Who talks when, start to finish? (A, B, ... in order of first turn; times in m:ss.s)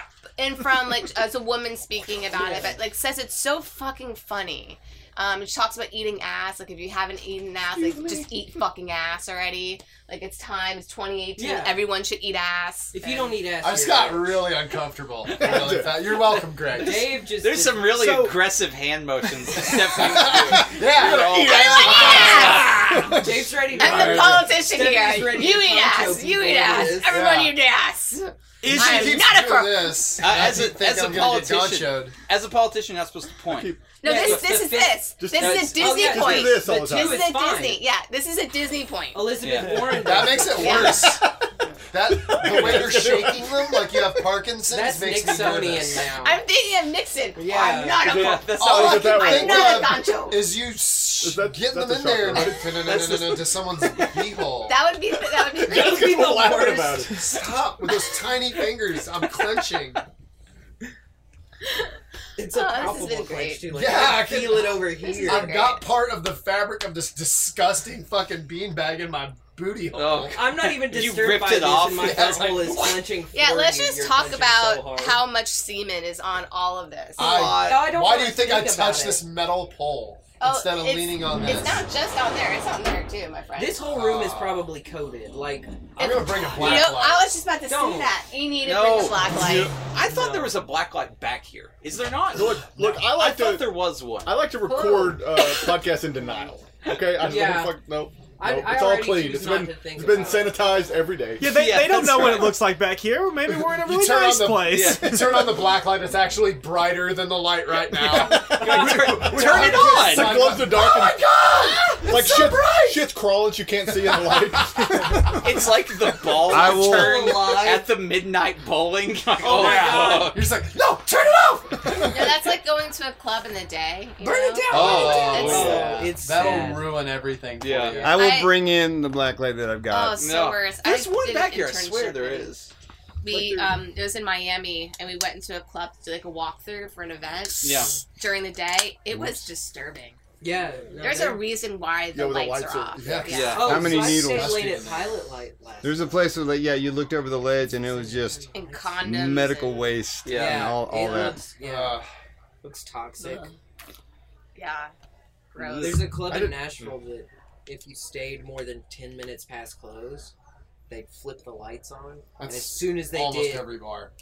0:00.4-0:13.4 A
0:02.3-0:02.8 B
0:11.4-0:11.9 B
0:12.9-0:14.5 B
0:13.6-0:17.0 C
0:15.4-0:16.0 D
0:16.7-0:18.4 B
0:16.8-0:22.5 E
0:19.6-0:22.6 C
0:20.5-0:23.5 D
0:21.3-0:23.0 A
0:23.1-0:27.2 B
0:23.8-0:30.2 A
0:23.8-0:24.4 C
0:27.1-0:27.5 C
0:28.6-0:29.3 F
0:28.7-0:32.1 C
0:30.2-0:33.7 E
0:33.5-0:34.4 D
0:34.0-0:39.3 A
0:34.0-0:37.8 B
0:35.2-0:37.2 D
0:39.1-0:41.1 B
0:39.4-0:39.8 E
0:39.9-0:41.2 C
0:40.4-0:41.2 A
0:40.8-0:41.4 D
0:41.9-0:46.0 C
0:42.0-0:44.2 D
0:44.7-0:46.4 B
0:46.0-0:50.5 A
0:47.3-0:48.2 B
0:47.5-0:49.0 E
0:48.1-0:54.8 C
0:48.5-0:50.0 D
0:51.2-0:52.8 D
0:53.0-0:53.3 E
0:54.6-0:56.4 A
0:55.5-0:57.2 D
0:55.6-0:57.4 B
0:57.2-1:00.0 C
1:02.4-1:05.6 B
1:02.5-1:03.7 A
1:03.7-1:10.4 C
1:04.9-1:05.8 A
1:09.9-1:12.6 E
1:10.3-1:15.3 B
1:11.9-1:13.0 C
1:13.3-1:17.3 A
1:17.2-1:21.8 C
1:17.2-1:17.9 E
1:17.5-1:19.2 B
1:20.4-1:23.8 A
1:23.6-1:26.9 B
1:23.8-1:24.7 C
1:26.0-1:29.7 A
1:26.0-1:27.3 C
1:27.7-1:28.1 B
1:28.6-1:34.4 E
1:30.0-1:30.6 B
1:32.3-1:41.5 D
1:34.6-1:35.2 A
1:37.1-1:37.8 B
1:38.4-1:40.8 B
1:41.4-1:45.5 F
1:41.4-1:42.6 E
1:43.5-1:53.0 C
1:44.7-1:45.1 E
1:47.9-1:50.4 E
1:49.1-1:51.2 D
1:51.7-1:52.4 B
1:52.0-1:55.5 D
1:53.8-1:54.6 C
1:55.4-2:00.4 E
1:56.4-1:57.6 G
1:56.5-1:57.8 B
1:59.4-2:00.3 B
1:59.4-2:02.3 C
2:02.0-2:06.0 A
2:04.2-2:07.0 B
2:04.7-2:05.9 E
2:04.7-2:08.2 C
2:07.6-2:08.0 E
2:08.0-2:10.2 G
2:08.0-2:08.6 A
2:09.9-2:12.5 A
2:10.2-2:12.7 E
2:13.2-2:20.2 A
2:13.3-2:13.8 B
2:17.6-2:17.9 E
2:19.1-2:19.4 G
2:20.4-2:21.4 B
2:21.0-2:24.2 A
2:22.1-2:23.5 D
2:23.0-2:23.5 C
2:23.3-2:23.9 E
2:23.5-2:26.0 B
2:23.6-2:24.8 G
2:24.2-2:25.2 C
2:25.8-2:28.4 G
2:27.7-2:29.1 B
2:28.5-2:29.9 A
2:29.0-2:31.4 G
2:30.2-2:30.8 E
2:30.3-2:32.0 B
2:31.6-2:32.0 C
2:32.6-2:33.5 B
2:34.5-2:34.9 A
2:35.5-2:36.1 A
2:35.5-2:36.5 E
2:35.8-2:40.3 B
2:36.2-2:36.5 D
2:40.9-2:43.7 B
2:42.4-2:44.1 C